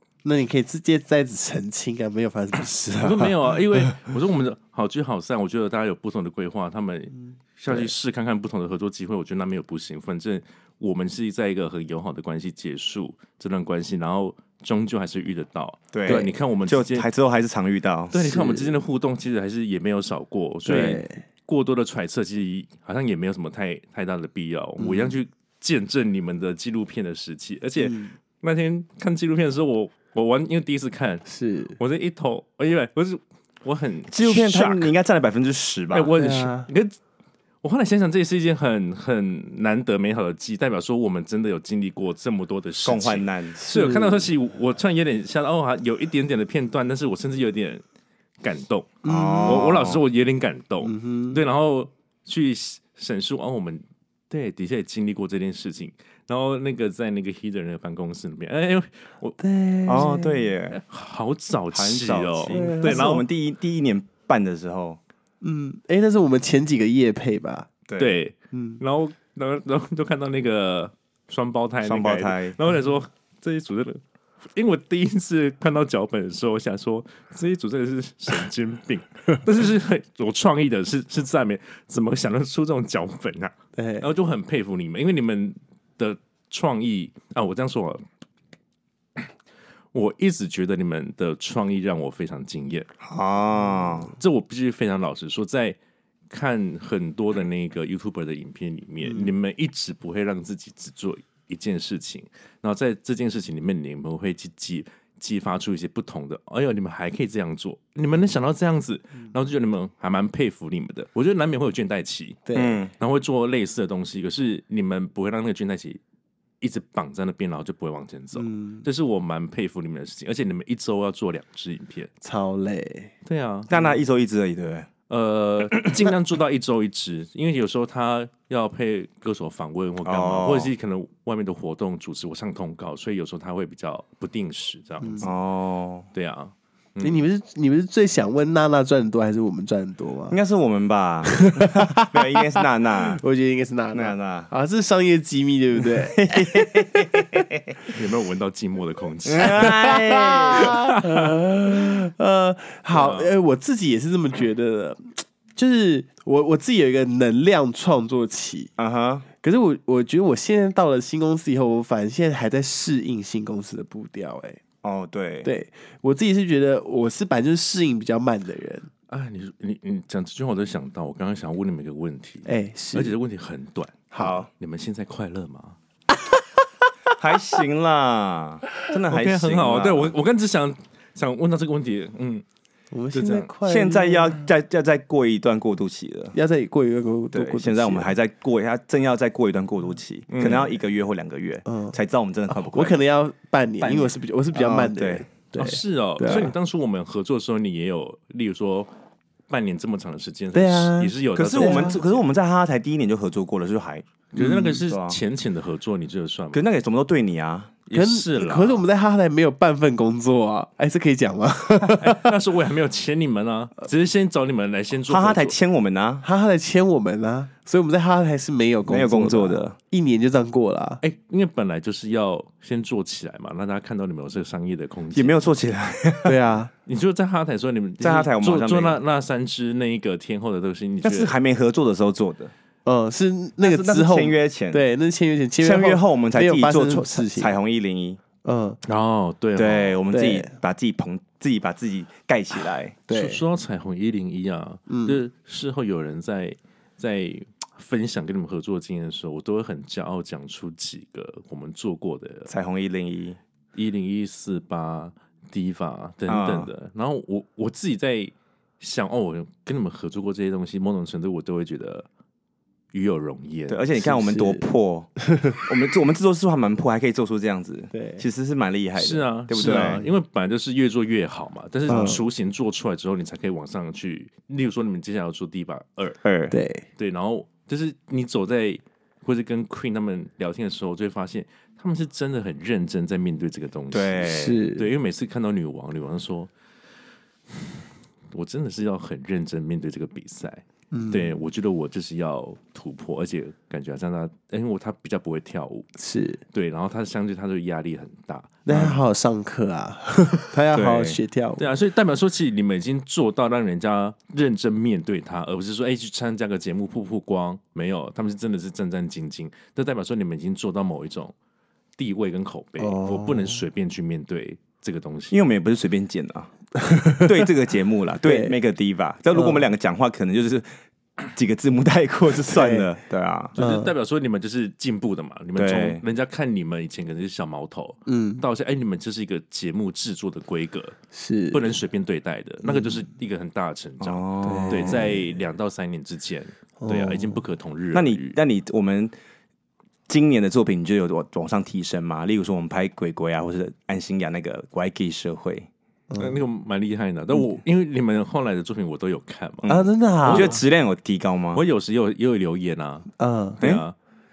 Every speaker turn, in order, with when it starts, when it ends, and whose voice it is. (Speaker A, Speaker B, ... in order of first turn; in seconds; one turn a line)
Speaker A: 0.2-4.0
Speaker B: 3.0-17.1
Speaker C: 15.9-18.1
Speaker B: 18.1-31.2
Speaker A: 18.2-18.7
Speaker A: 20.6-21.2
Speaker A: 24.8-25.2
Speaker A: 27.8-28.1
Speaker A: 31.2-31.8
Speaker B: 31.8-34.9
Speaker C: 34.1-36.1
Speaker B: 35.9-37.0
Speaker A: 36.1-36.7
Speaker B: 37.6-47.8
Speaker C: 42.8-43.5
Speaker A: 43.6-44.3
Speaker B: 48.4-59.4
Speaker A: 49.0-49.7
Speaker C: 49.0-50.0
Speaker A: 50.8-51.4
Speaker A: 59.4-60.4
Speaker C: 59.9-60.8
Speaker B: 60.7-63.2
Speaker C: 61.7-65.0
Speaker A: 62.5-63.2
Speaker A: 65.4-67.7
Speaker C: 67.9-68.1
Speaker B: 68.0-74.0
Speaker A: 68.5-68.8
Speaker C: 71.8-72.6
Speaker B: 74.5-88.0
Speaker A: 83.8-84.1
Speaker B: 89.9-92.9
Speaker C: 93.0-94.1
Speaker B: 94.2-95.8
Speaker B: 96.3-112.4
Speaker A: 99.1-99.3
Speaker A: 112.5-112.8
Speaker C: 112.5-112.9
Speaker B: 113.0-116.0
Speaker B: 116.6-122.1
Speaker A: 118.4-118.8
Speaker A: 122.2-123.1
Speaker B: 123.2-123.7
Speaker C: 123.7-124.9
Speaker B: 125.1-135.3
Speaker C: 130.0-130.7
Speaker A: 135.0-135.3
Speaker C: 135.2-136.1
Speaker B: 136.1-137.2
Speaker A: 137.0-140.4
Speaker C: 140.3-143.2
Speaker A: 141.3-147.4
Speaker C: 143.9-144.5
Speaker C: 146.2-147.7
Speaker B: 147.9-149.8
Speaker C: 149.2-150.7
Speaker A: 149.4-158.7
Speaker B: 152.9-153.3
Speaker C: 158.8-159.2
Speaker A: 159.4-164.6
Speaker C: 164.8-165.5
Speaker A: 165.4-168.9
Speaker B: 169.1-175.8
Speaker A: 172.4-173.1
Speaker A: 174.1-174.4
Speaker C: 174.2-174.5
Speaker C: 177.2-180.1
Speaker B: 179.1-182.4
Speaker A: 182.9-184.5
Speaker B: 183.1-183.5
Speaker C: 183.6-186.3
Speaker A: 186.3-188.1
Speaker C: 187.3-193.0
Speaker B: 190.3-190.7
Speaker A: 191.7-191.9
Speaker A: 192.5-196.5
Speaker C: 193.8-195.3
Speaker B: 195.6-198.9
Speaker B: 199.5-202.2
Speaker A: 200.5-202.0
Speaker C: 201.3-204.1
Speaker B: 204.3-206.6
Speaker A: 204.4-204.8
Speaker C: 204.8-205.2
Speaker C: 206.5-207.7
Speaker B: 207.9-208.8
Speaker A: 207.9-212.3
Speaker B: 211.9-215.5
Speaker C: 215.1-216.2
Speaker A: 216.2-221.0
Speaker C: 218.9-219.7
Speaker B: 221.0-225.4
Speaker C: 225.1-226.4
Speaker A: 226.2-226.7
Speaker B: 226.8-231.3
Speaker C: 228.0-229.0
Speaker C: 231.0-232.5
Speaker A: 232.8-237.6
Speaker C: 233.6-234.8
Speaker C: 235.6-238.2
Speaker A: 238.4-238.8
Speaker B: 238.8-240.0
Speaker C: 239.6-243.0
Speaker A: 240.1-240.5
Speaker A: 243.1-243.4
Speaker B: 243.1-252.5
Speaker A: 244.9-245.2
Speaker C: 252.5-253.4
Speaker B: 253.7-262.1
Speaker C: 256.3-256.7
Speaker B: 262.9-263.9
Speaker C: 263.7-270.0
Speaker A: 264.0-264.7
Speaker A: 267.9-268.2
Speaker B: 269.0-276.2
Speaker A: 269.6-270.0
Speaker A: 271.9-272.2
Speaker C: 276.2-276.5
Speaker A: 276.5-276.8
Speaker B: 277.0-286.5
Speaker C: 283.9-284.6
Speaker A: 284.2-284.9
Speaker B: 288.3-295.9
Speaker A: 290.9-291.4
Speaker A: 296.0-296.4
Speaker B: 296.5-298.6
Speaker A: 298.6-301.6
Speaker C: 298.7-299.0
Speaker C: 300.7-301.2
Speaker B: 301.6-311.3
Speaker B: 312.0-315.4
Speaker A: 312.8-313.6
Speaker C: 315.3-316.5
Speaker A: 316.8-317.3
Speaker C: 317.2-320.7
Speaker A: 318.2-318.6
Speaker A: 319.3-319.6
Speaker C: 321.2-323.5
Speaker A: 322.5-322.9
Speaker B: 323.5-331.0
Speaker A: 323.6-323.9
Speaker C: 325.6-326.0
Speaker A: 328.1-328.4
Speaker A: 331.1-331.7
Speaker B: 331.5-338.4
Speaker A: 332.6-333.0
Speaker C: 334.0-335.2
Speaker A: 334.4-335.3
Speaker A: 336.8-337.4
Speaker C: 337.9-339.1
Speaker C: 340.1-345.7
Speaker A: 346.1-346.4
Speaker B: 346.2-350.6
Speaker C: 349.6-351.6
Speaker A: 349.7-350.6
Speaker B: 351.5-353.9
Speaker A: 353.2-353.6